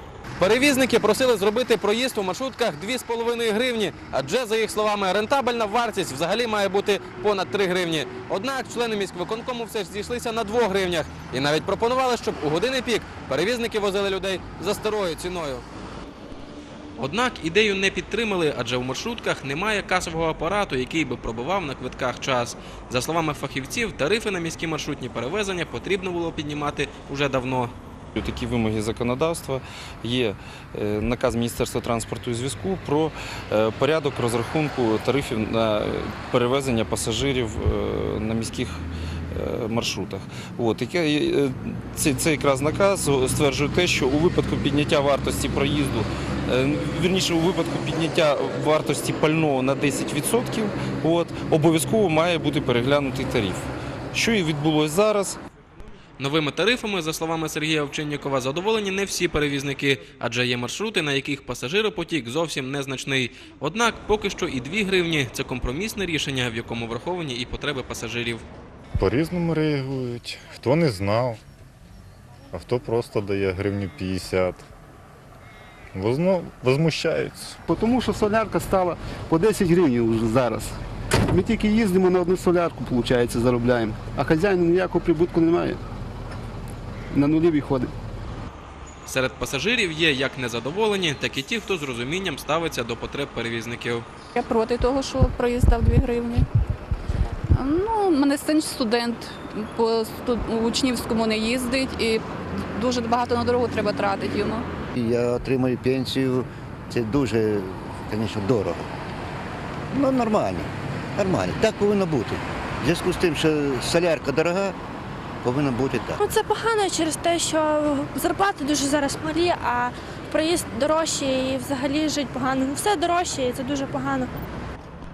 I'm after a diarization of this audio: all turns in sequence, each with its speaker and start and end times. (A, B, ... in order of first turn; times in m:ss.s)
0:00.4-0:15.6 A
0:17.0-0:27.7 A
0:28.1-0:55.4 B
0:56.2-1:08.4 A
1:09.0-1:11.4 C
1:12.5-1:14.6 C
1:15.9-1:17.6 C
1:17.6-1:20.7 D
1:21.3-1:25.8 D
1:27.1-1:27.9 D
1:29.0-1:34.0 A
1:34.3-1:36.5 E
1:37.5-1:44.6 E
1:45.0-1:48.9 F
1:49.9-1:54.8 F
1:55.4-1:56.2 F
1:56.2-2:04.3 G